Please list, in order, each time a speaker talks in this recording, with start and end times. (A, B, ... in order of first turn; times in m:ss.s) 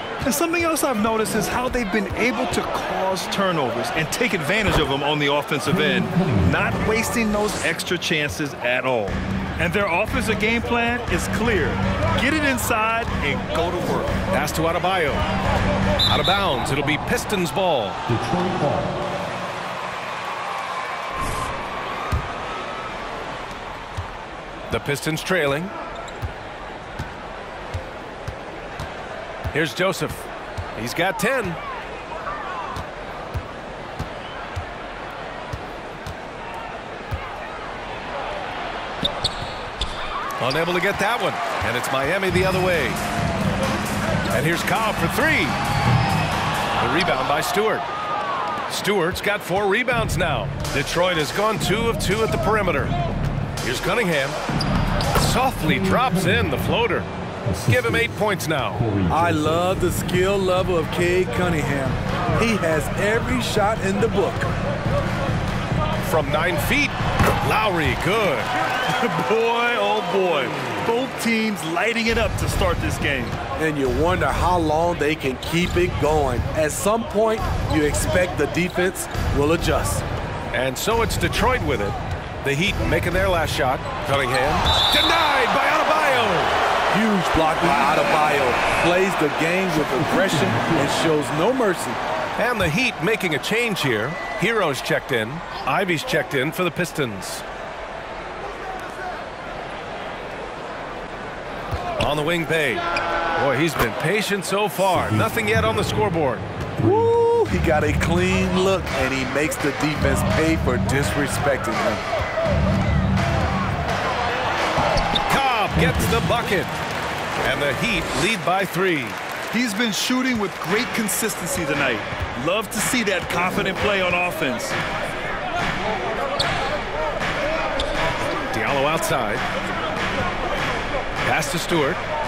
0:00.2-0:14.2 A
0:05.7-0:06.5 B
0:14.3-0:15.2 C
0:16.1-0:18.0 C
0:18.1-0:19.0 B
0:24.7-0:25.7 C
0:29.5-0:30.2 C
0:30.8-0:31.6 C
0:40.4-0:43.0 C
0:44.3-0:45.6 C
0:46.8-0:47.8 C
0:48.7-0:52.9 C
0:53.6-0:54.4 C
0:55.1-0:57.1 C
0:56.0-0:56.4 B
0:57.4-0:58.1 B
0:57.7-0:58.8 C
0:58.7-0:59.6 B
0:59.1-1:04.5 D
1:06.0-1:08.5 C
1:08.9-1:13.4 A
1:13.6-1:20.0 D
1:20.5-1:26.5 C
1:26.9-1:32.0 D
1:29.9-1:30.9 B
1:32.4-1:37.4 C
1:42.0-1:42.8 C
1:43.4-1:46.4 C
1:44.9-1:45.3 B
1:46.8-1:47.1 B
1:46.8-1:52.0 D
1:55.3-1:56.7 C
1:55.8-1:56.3 B
1:57.4-1:59.2 C
1:59.5-2:04.8 A
2:08.5-2:09.4 C
2:11.2-2:12.0 C